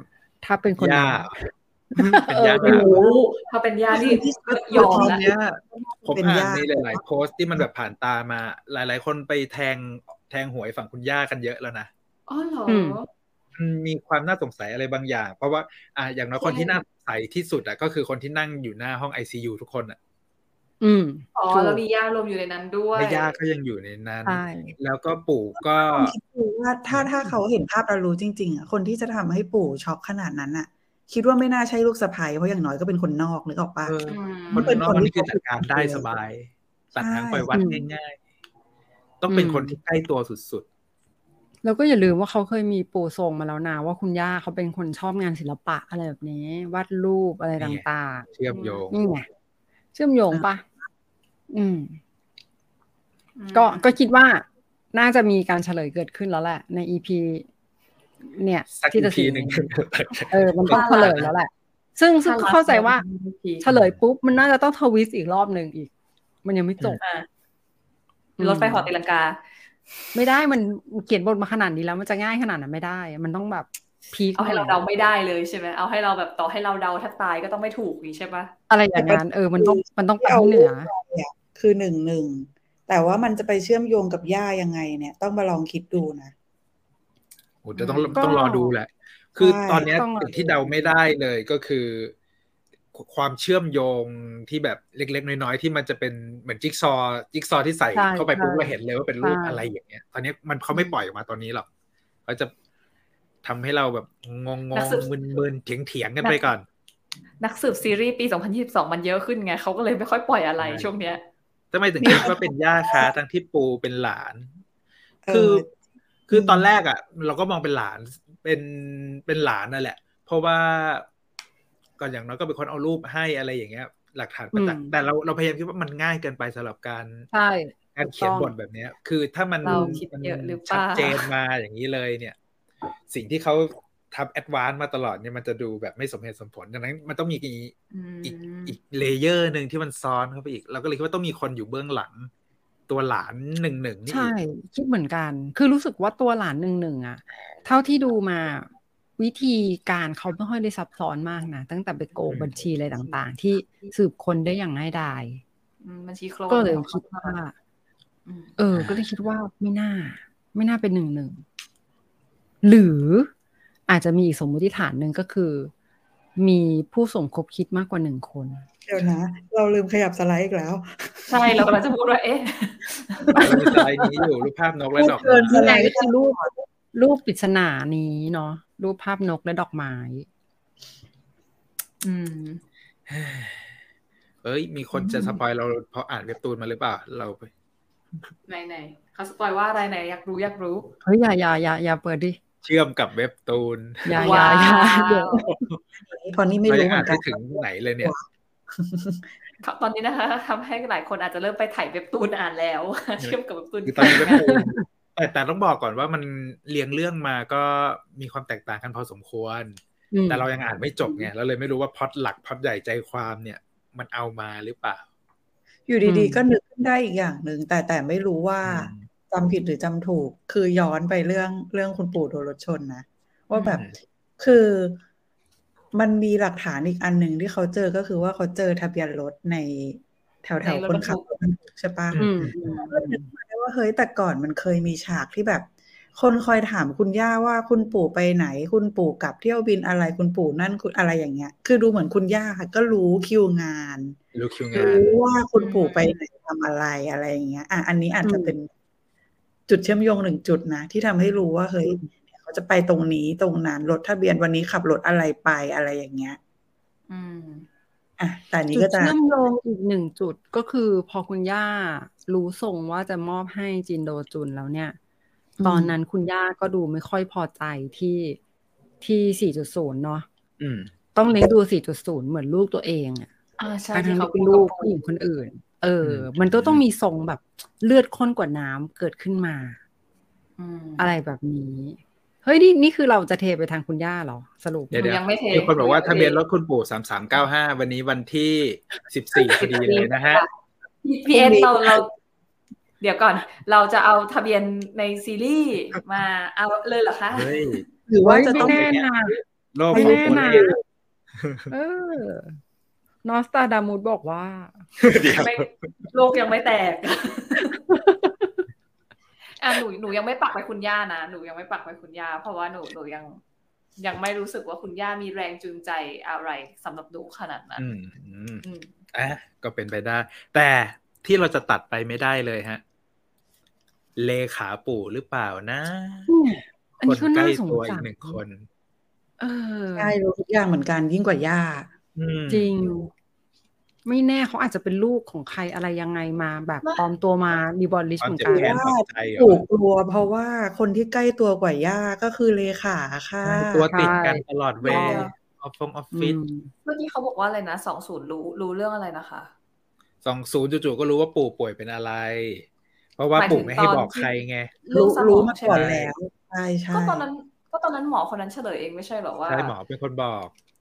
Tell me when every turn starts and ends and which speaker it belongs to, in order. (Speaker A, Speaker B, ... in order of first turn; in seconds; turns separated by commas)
Speaker A: 0.4-3.1, Speaker B: 0.8-1.4, Speaker B: 2.1-2.9, Speaker C: 2.6-5.2, Speaker D: 3.9-7.0, Speaker B: 4.6-11.9, Speaker C: 12.3-13.1, Speaker A: 12.7-13.0, Speaker B: 13.6-20.0, Speaker C: 16.4-16.8, Speaker A: 20.8-21.8, Speaker C: 21.4-23.4, Speaker B: 22.9-26.1, Speaker A: 24.2-24.8, Speaker D: 25.8-34.0, Speaker B: 26.9-27.3, Speaker B: 33.9-38.2, Speaker C: 34.1-34.7, Speaker D: 34.5-36.1, Speaker D: 37.0-37.5, Speaker A: 37.5-37.9, Speaker B: 39.2-40.7, Speaker A: 39.3-39.8, Speaker A: 41.6-48.3, Speaker B: 47.6-49.0, Speaker C: 48.5-48.8, Speaker A: 48.9-49.3, Speaker A: 50.0-50.6, Speaker A: 51.5-52.0, Speaker C: 53.4-53.9, Speaker A: 53.5-57.5, Speaker A: 58.2-59.7, Speaker B: 58.8-61.3, Speaker A: 60.3-63.0, Speaker C: 60.7-61.2, Speaker C: 62.2-63.7, Speaker A: 63.6-65.9, Speaker B: 63.7-64.0, Speaker A: 66.4-67.0, Speaker C: 67.0-67.3, Speaker A: 68.4-68.9, Speaker C: 68.4-69.4, Speaker A: 70.1-74.8, Speaker C: 74.3-78.5, Speaker A: 78.7-80.9, Speaker D: 79.0-86.3, Speaker B: 87.6-92.1, Speaker C: 87.8-88.2, Speaker A: 88.2-88.7, Speaker D: 89.4-89.9, Speaker A: 89.9-91.0, Speaker B: 92.9-101.7, Speaker A: 97.9-99.6, Speaker B: 102.3-102.5, Speaker B: 103.4-106.7, Speaker C: 104.7-105.1, Speaker C: 107.4-111.2, Speaker B: 110.6-110.9, Speaker B: 111.7-114.5, Speaker D: 112.0-113.1, Speaker D: 115.3-115.7, Speaker B: 115.3-115.6, Speaker B: 116.3-121.1, Speaker D: 116.3-116.7, Speaker B: 122.0-127.3, Speaker A: 124.5-125.0, Speaker A: 127.3-128.5, Speaker B: 128.0-132.4, Speaker A: 129.6-130.0, Speaker C: 129.6-131.3, Speaker B: 133.1-142.3, Speaker C: 137.9-138.8, Speaker B: 142.9-144.3, Speaker A: 144.1-155.4, Speaker B: 152.3-152.6, Speaker C: 155.8-157.3, Speaker A: 156.5-157.5, Speaker C: 158.3-158.6, Speaker A: 158.6-161.4, Speaker B: 158.7-159.0, Speaker A: 162.6-163.3, Speaker A: 163.9-165.7, Speaker A: 166.4-168.7, Speaker D: 168.9-171.8, Speaker C: 171.3-173.9, Speaker B: 173.4-175.6, Speaker D: 175.0-176.5, Speaker A: 175.5-180.3, Speaker C: 182.0-182.6, Speaker B: 183.1-183.7, Speaker B: 184.4-187.5, Speaker C: 188.5-190.9, Speaker A: 191.0-192.4, Speaker B: 192.6-194.4, Speaker A: 194.1-195.5, Speaker C: 194.2-195.4, Speaker B: 195.4-195.8, Speaker D: 196.0-199.3, Speaker B: 196.7-198.1, Speaker C: 199.6-204.4, Speaker B: 203.2-215.0, Speaker A: 204.0-204.8, Speaker A: 210.1-210.4, Speaker D: 215.9-223.8, Speaker A: 216.0-216.4, Speaker B: 218.6-219.1, Speaker D: 224.4-225.0, Speaker D: 225.9-232.3, Speaker C: 230.6-231.3, Speaker B: 232.1-232.6, Speaker A: 232.2-233.0, Speaker D: 232.9-244.2, Speaker B: 244.3-245.2, Speaker D: 244.7-248.7, Speaker C: 245.6-246.1, Speaker A: 248.2-248.6, Speaker D: 249.7-256.4, Speaker C: 257.1-257.7, Speaker D: 258.2-259.1, Speaker A: 258.7-265.0, Speaker A: 265.6-268.4, Speaker D: 265.6-265.9, Speaker A: 269.0-270.3, Speaker B: 270.6-270.9, Speaker A: 271.1-273.3, Speaker C: 273.6-274.9, Speaker A: 273.9-279.8, Speaker B: 276.0-276.8, Speaker C: 280.6-281.1, Speaker A: 281.0-285.0, Speaker B: 284.9-290.4, Speaker C: 284.9-286.4, Speaker C: 289.4-290.5, Speaker C: 291.0-292.1, Speaker D: 291.3-292.0, Speaker C: 293.0-297.9, Speaker B: 297.3-297.8, Speaker D: 298.1-299.0, Speaker A: 298.2-299.4, Speaker B: 298.6-299.0, Speaker B: 299.7-300.8, Speaker A: 299.9-300.7, Speaker D: 299.9-300.8, Speaker B: 301.4-301.7, Speaker A: 301.7-302.6, Speaker A: 303.2-304.9, Speaker B: 305.0-305.9, Speaker C: 305.3-307.8, Speaker A: 307.9-308.4, Speaker C: 309.6-313.4, Speaker C: 314.0-317.9, Speaker B: 317.8-322.8, Speaker C: 318.6-318.9, Speaker B: 324.2-326.3, Speaker A: 326.3-328.4, Speaker B: 327.0-328.7, Speaker A: 329.4-330.2, Speaker D: 330.0-331.9, Speaker B: 332.2-332.7, Speaker A: 332.5-333.1, Speaker A: 334.1-338.8, Speaker B: 338.2-339.6, Speaker D: 338.5-343.9, Speaker B: 343.4-346.4, Speaker A: 343.9-345.2, Speaker C: 344.8-345.3, Speaker A: 346.1-346.7, Speaker C: 346.9-349.5, Speaker B: 350.2-352.7, Speaker B: 353.2-354.7, Speaker C: 353.4-354.3, Speaker C: 354.8-355.8, Speaker D: 354.9-357.3, Speaker B: 355.7-356.1, Speaker C: 356.9-359.8, Speaker B: 359.5-360.5